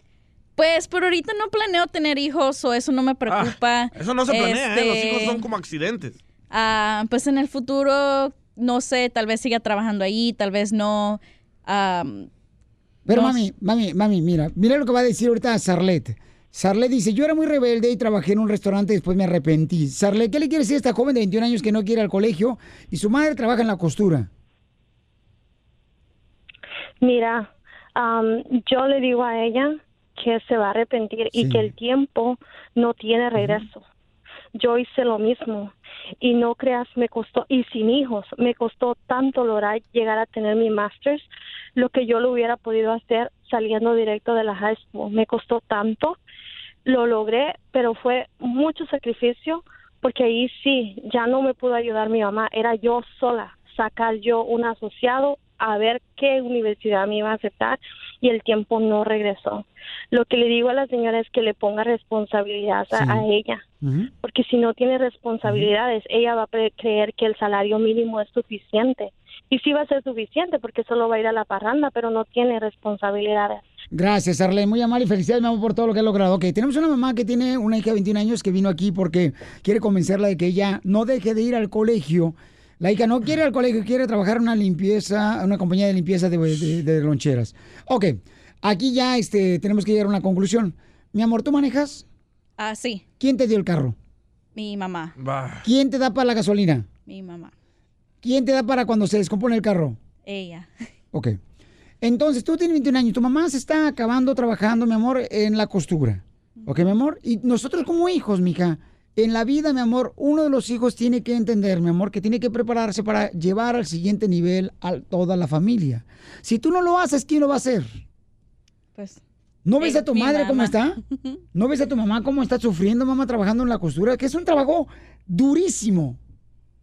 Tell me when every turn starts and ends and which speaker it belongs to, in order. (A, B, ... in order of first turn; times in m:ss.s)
0:00.6-0:05.4 A
0:03.3-0:06.2 B
0:06.5-0:12.3 A
0:13.0-0:24.3 C
0:13.1-0:13.4 A
0:27.0-0:33.8 D
0:31.3-0:31.7 C
0:34.5-0:46.2 D
0:46.8-1:03.6 D
1:02.9-1:03.2 C
1:03.8-1:04.1 C
1:04.2-1:13.6 D
1:13.9-1:32.0 C
1:32.6-1:33.0 A
1:33.2-1:34.0 C
1:34.6-1:35.1 A
1:35.2-1:35.6 B
1:35.6-1:36.8 C
1:37.1-1:37.5 A
1:38.2-1:40.0 C
1:40.2-1:40.7 A
1:41.1-1:41.4 C
1:42.0-1:58.0 C
1:59.0-1:59.2 A
1:59.6-2:01.0 C
1:59.8-2:01.4 A
2:01.5-2:06.2 C